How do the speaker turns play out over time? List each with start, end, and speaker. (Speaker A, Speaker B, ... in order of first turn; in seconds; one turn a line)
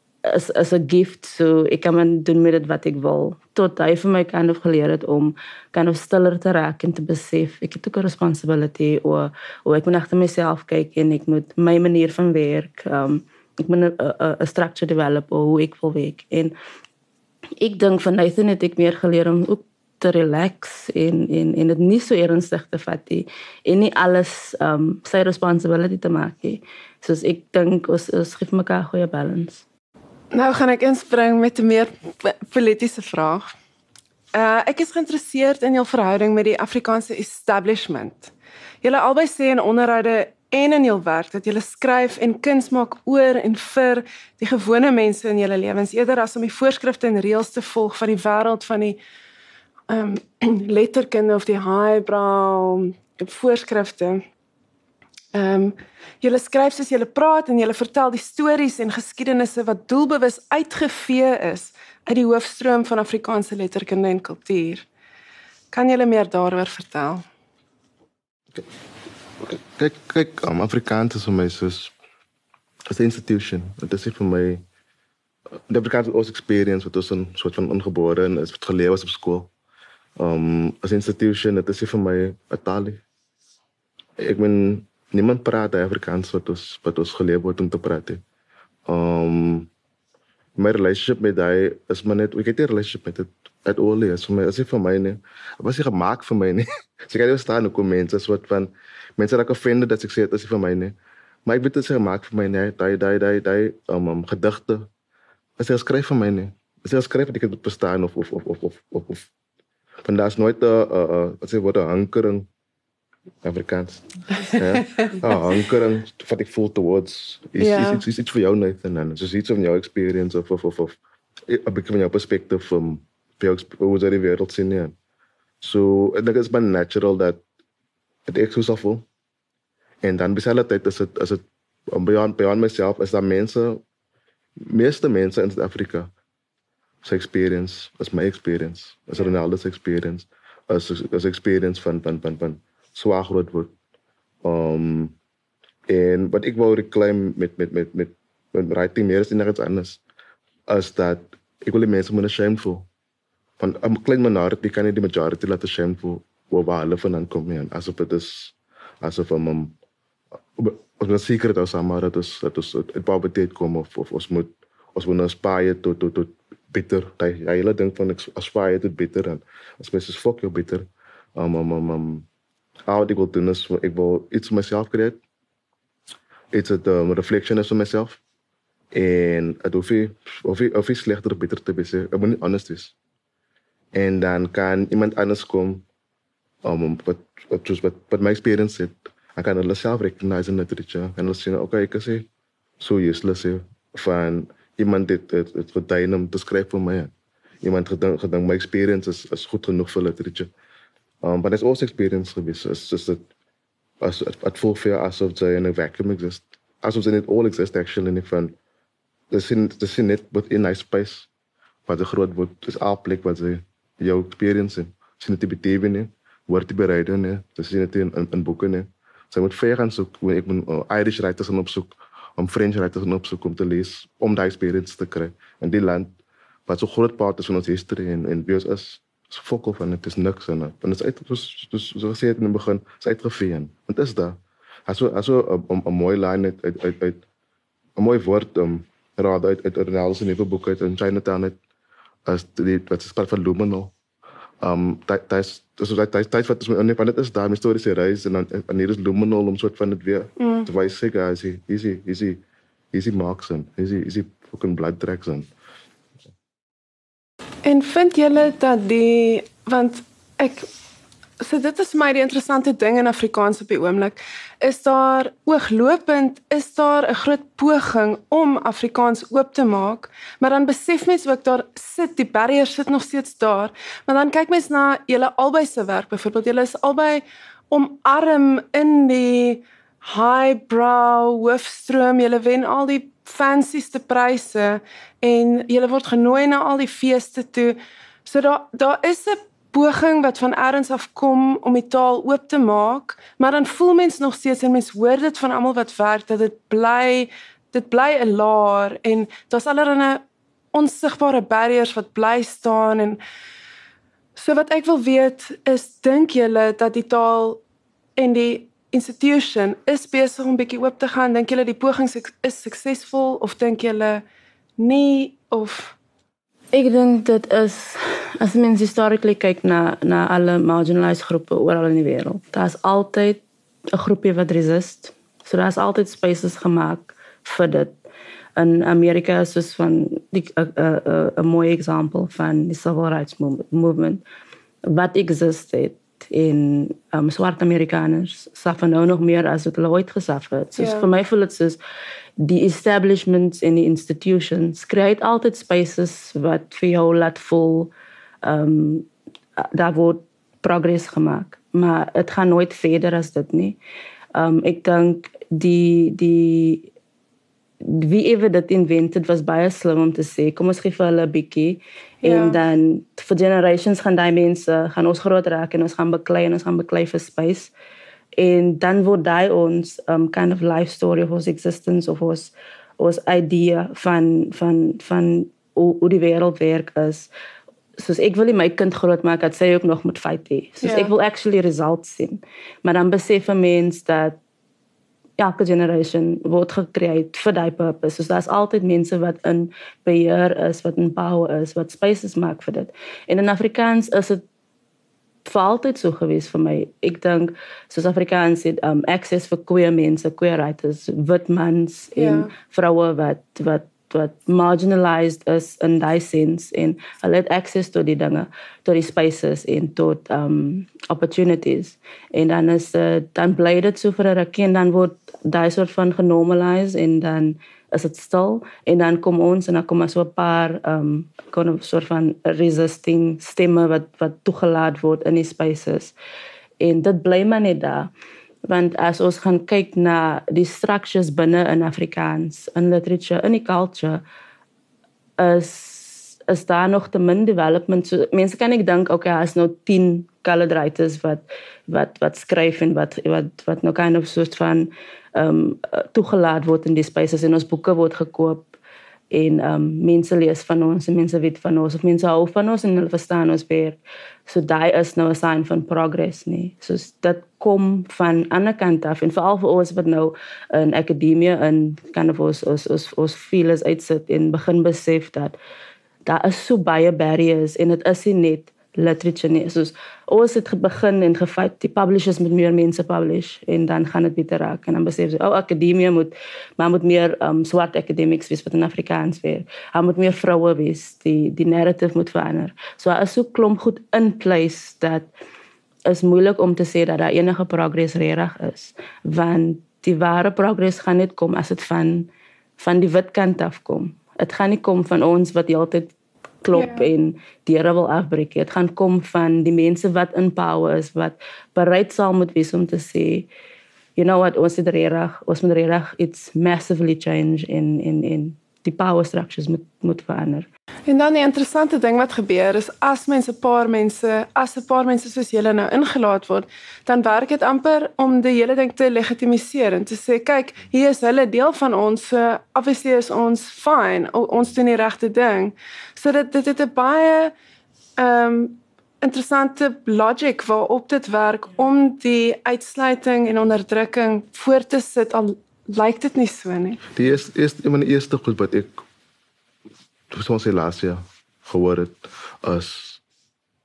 Speaker A: 0.2-16.6
Speaker A: 17.6-29.6
Speaker B: 30.3-33.5
Speaker B: 34.3-38.3
Speaker B: 38.8-49.0
Speaker B: 49.9-54.2
Speaker B: 55.3-64.9
Speaker B: 65.7-67.2
Speaker C: 69.4-71.9
Speaker C: 72.9-74.6
Speaker C: 75.7-79.5
Speaker C: 80.2-83.0
Speaker C: 84.2-88.2
Speaker C: 88.9-89.7
Speaker C: 90.6-101.0
Speaker C: 101.5-104.9
Speaker C: 105.6-109.3
Speaker C: 110.0-112.5
Speaker C: 113.4-125.0
Speaker B: 117.6-118.0
Speaker C: 125.6-127.4
Speaker C: 128.3-129.1
Speaker C: 130.0-133.8
Speaker C: 134.6-136.1
Speaker C: 137.0-143.7
Speaker C: 144.4-145.1
Speaker C: 145.9-150.0
Speaker C: 150.7-152.9
Speaker C: 153.6-159.7
Speaker C: 160.6-172.3
Speaker C: 172.9-175.2
Speaker C: 176.5-178.2
Speaker C: 178.9-182.9
Speaker C: 183.9-185.8
Speaker C: 186.6-192.3
Speaker C: 192.8-200.5
Speaker C: 201.2-203.2
Speaker C: 204.0-208.6
Speaker C: 209.3-211.3
Speaker C: 211.9-226.1
Speaker C: 226.7-237.2
Speaker C: 238.0-241.6
Speaker C: 242.3-243.9
Speaker C: 244.6-252.4
Speaker B: 250.4-250.7
Speaker C: 252.9-255.5
Speaker B: 257.6-260.7
Speaker B: 261.4-300.2
Speaker B: 300.7-303.2
Speaker B: 304.4-307.6
Speaker B: 308.2-314.2
Speaker B: 314.8-315.9
Speaker A: 316.7-323.4
Speaker A: 323.9-327.9
Speaker A: 328.6-334.2
Speaker A: 334.9-341.8
Speaker B: 340.8-341.1
Speaker A: 342.4-347.9
Speaker A: 348.4-349.1
Speaker A: 349.6-353.8
Speaker A: 354.4-356.9
Speaker A: 357.8-367.7
Speaker B: 362.2-362.6
Speaker A: 368.4-377.3
Speaker A: 378.0-384.4
Speaker B: 380.8-381.1
Speaker A: 385.4-394.4
Speaker A: 395.4-426.1
Speaker B: 402.2-402.5
Speaker A: 426.8-428.1
Speaker A: 428.7-434.2
Speaker A: 435.4-448.7
Speaker A: 449.3-465.6
Speaker A: 466.3-485.3
Speaker A: 486.1-503.5
Speaker B: 496.7-497.1
Speaker A: 504.2-510.7
Speaker B: 511.1-527.5
Speaker B: 528.2-537.0
Speaker C: 537.1-539.0
Speaker C: 540.3-543.2